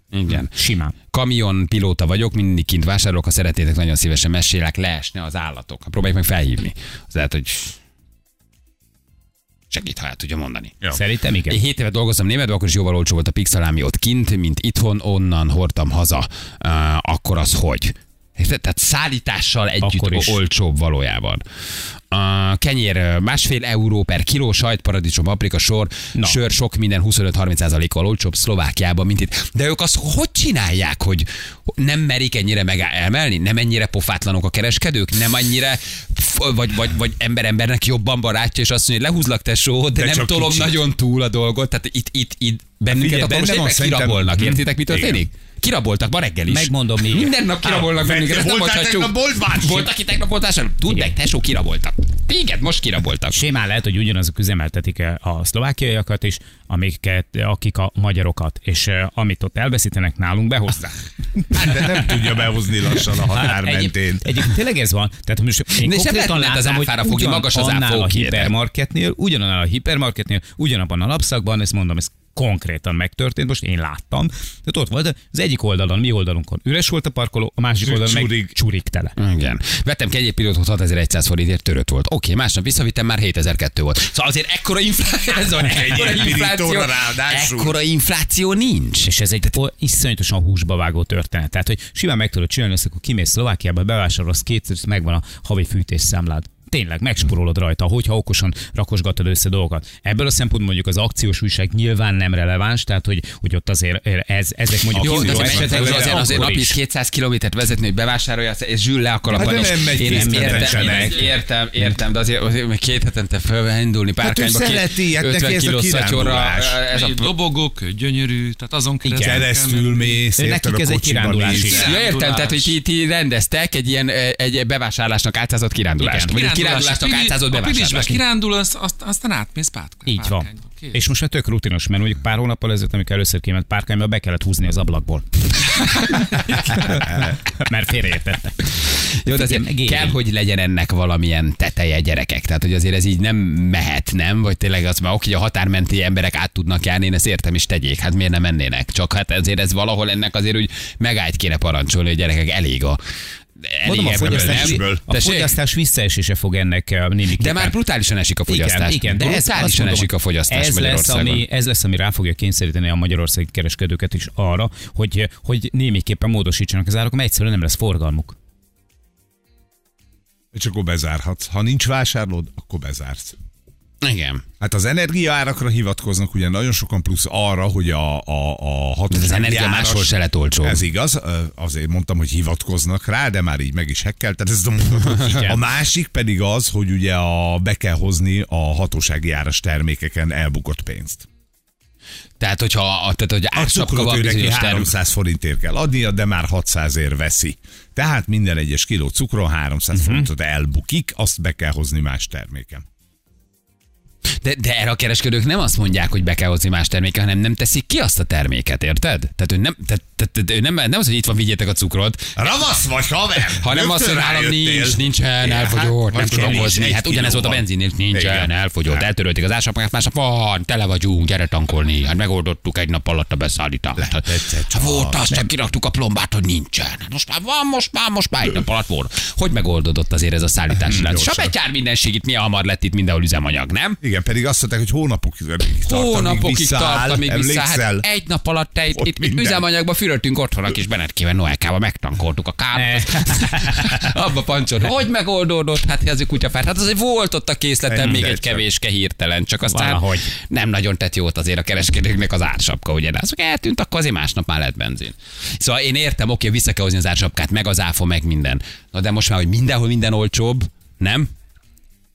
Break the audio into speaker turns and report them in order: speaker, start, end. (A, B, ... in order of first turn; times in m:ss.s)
0:00.1-0:00.5 A
0:00.3-0:00.9 B
0:01.1-0:07.8 A
0:09.7-0:10.9 A
0:10.9-0:11.6 B
0:11.5-0:21.4 A
0:19.8-0:20.4 B
0:22.1-0:31.3 A
0:26.1-0:26.4 B
0:31.8-0:53.4 A
0:39.9-0:40.8 C
0:42.9-0:45.2 C
0:46.5-0:47.3 B
0:47.6-0:49.9 C
0:53.3-1:01.7 B
1:01.5-1:04.4 C
1:03.3-1:19.1 B
1:05.8-1:08.5 A
1:17.8-1:18.5 C
1:19.2-1:29.1 A
1:25.6-1:27.7 C
1:29.0-1:46.8 B
1:44.9-1:46.6 C
1:45.0-1:57.3 A
1:49.3-1:51.2 C
1:49.4-1:51.2 B
1:54.2-1:56.8 C
1:56.8-2:00.2 D
1:59.0-1:59.5 B
1:59.2-2:01.9 C
2:00.4-2:01.8 B
2:01.6-2:02.8 D
2:01.7-2:08.2 A
2:06.0-2:11.1 D
2:10.1-2:18.6 B
2:16.1-2:16.8 D
2:18.8-2:33.0 A
2:19.3-2:20.2 B
2:33.6-2:35.5 A
2:33.9-2:37.7 B
2:33.9-2:35.0 C
2:37.4-2:41.4 A
2:38.5-2:48.4 B
2:50.5-2:53.3 C
2:54.0-2:54.4 A
2:54.6-3:11.3 C
2:59.1-3:00.8 A
3:12.4-3:14.9 A
3:13.5-3:22.8 C
3:19.9-3:20.3 B
3:24.4-3:32.6 A
3:32.4-3:39.0 C
3:33.6-3:54.0 A
3:44.0-3:45.5 C
3:50.7-3:51.5 C
3:54.0-3:58.0 C
3:55.8-4:21.3 A
3:58.9-3:59.6 C
4:02.7-4:04.0 B
4:07.9-4:08.6 C
4:09.7-4:10.3 B